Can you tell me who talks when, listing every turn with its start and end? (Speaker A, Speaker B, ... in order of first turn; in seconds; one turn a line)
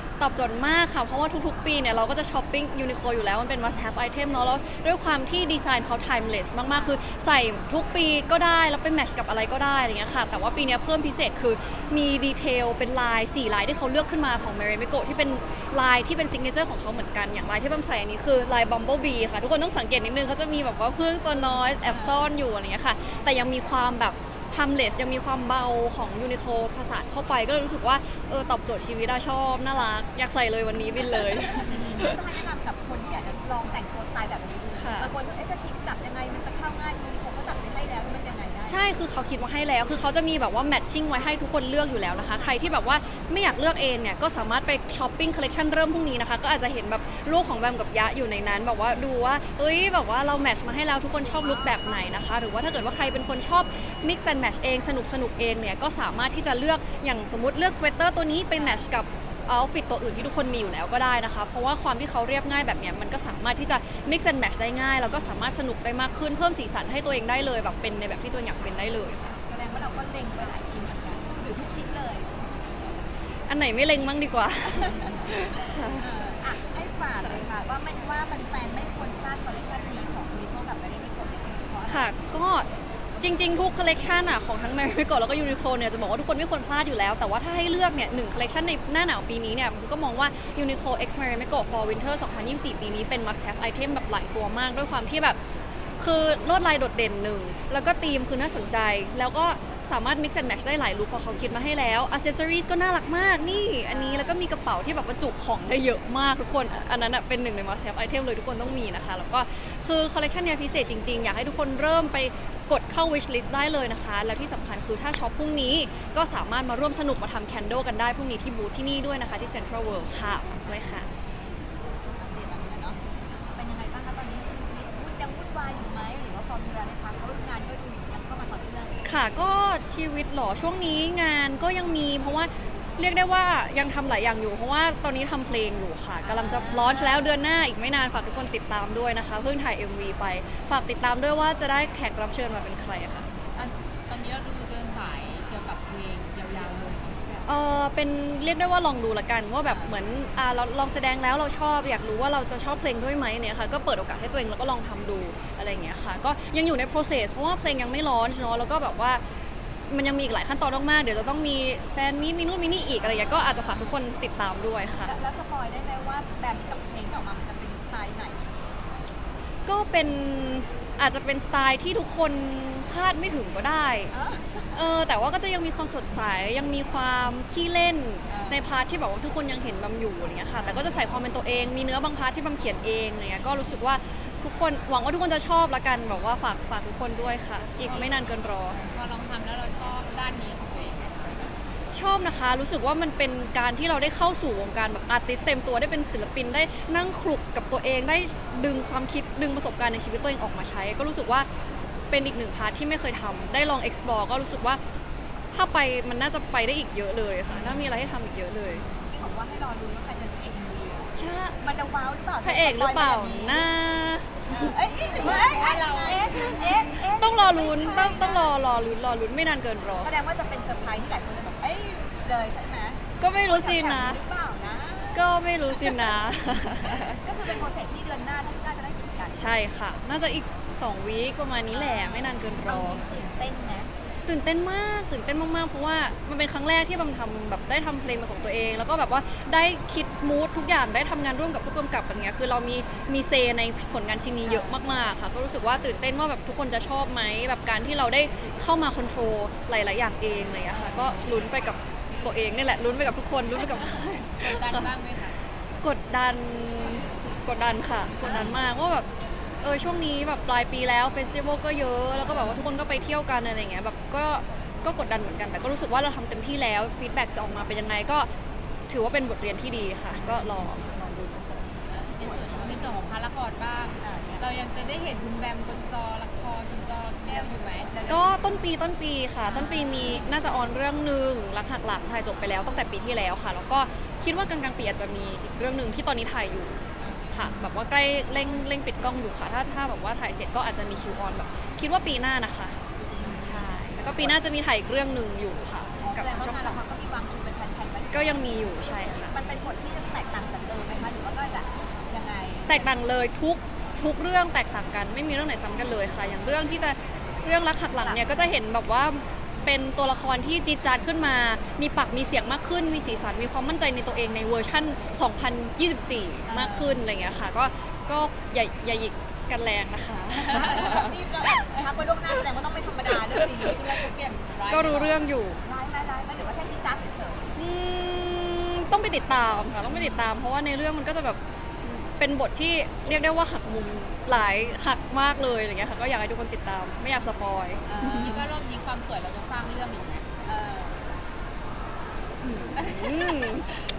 Speaker A: 0.2-32.1
Speaker B: 6.7-7.0
Speaker B: 21.8-22.2
Speaker B: 31.3-38.8
Speaker A: 34.8-35.1
Speaker A: 38.7-69.4
Speaker B: 58.5-58.8
Speaker B: 69.4-72.7
Speaker A: 73.5-76.1
Speaker B: 74.7-82.1
Speaker A: 81.9-82.7
Speaker A: 83.2-95.4
Speaker A: 96.0-121.1
Speaker B: 103.8-104.4
Speaker B: 122.1-123.0
Speaker B: 123.5-129.0
Speaker A: 129.1-143.3
Speaker B: 136.2-137.4
Speaker C: 143.6-147.1
Speaker B: 146.6-147.5
Speaker A: 147.5-159.2
Speaker B: 149.7-150.0
Speaker A: 159.9-165.1
Speaker B: 165.0-168.8
Speaker A: 169.7-174.1
Speaker B: 174.1-174.8
Speaker A: 174.7-188.8
Speaker B: 178.3-178.6
Speaker B: 180.6-181.0
Speaker C: 187.9-188.1
Speaker B: 188.7-189.0
Speaker C: 188.8-191.5
Speaker A: 191.9-201.5
Speaker A: 202.1-204.8
Speaker A: 205.5-208.8
Speaker B: 208.8-213.7
Speaker A: 211.2-211.6
Speaker A: 212.4-214.7
Speaker B: 214.5-218.5
Speaker C: 215.1-216.8
Speaker A: 216.4-220.1
Speaker B: 220.0-226.2
Speaker A: 223.2-224.2
Speaker A: 225.1-227.2
Speaker B: 226.8-229.4
Speaker A: 229.3-233.0
Speaker B: 231.7-233.9
Speaker A: 234.3-254.9
Speaker B: 244.5-244.9
Speaker C: 250.7-251.4
Speaker C: 254.4-255.4
Speaker A: 255.8-259.1
Speaker C: 258.2-258.6
Speaker A: 259.6-268.3
Speaker A: 268.9-271.6
Speaker C: 271.9-277.9
Speaker B: 272.1-273.0
Speaker B: 274.0-274.5
Speaker B: 277.3-278.4
Speaker A: 278.1-296.8
Speaker B: 279.5-280.3
Speaker C: 279.5-279.9
Speaker C: 287.0-287.8
Speaker C: 293.2-294.3
Speaker B: 293.2-293.5
Speaker B: 296.0-302.9
Speaker A: 298.1-299.3
Speaker A: 302.7-321.1
Speaker B: 308.0-308.6
Speaker B: 316.5-317.0
Speaker B: 320.4-323.8
Speaker C: 323.4-325.2
Speaker A: 324.7-325.6
Speaker B: 325.6-327.6
Speaker A: 327.6-338.4
Speaker B: 337.9-338.5
Speaker C: 338.0-340.3
Speaker B: 340.4-341.0
Speaker A: 342.4-343.7
Speaker C: 342.8-343.6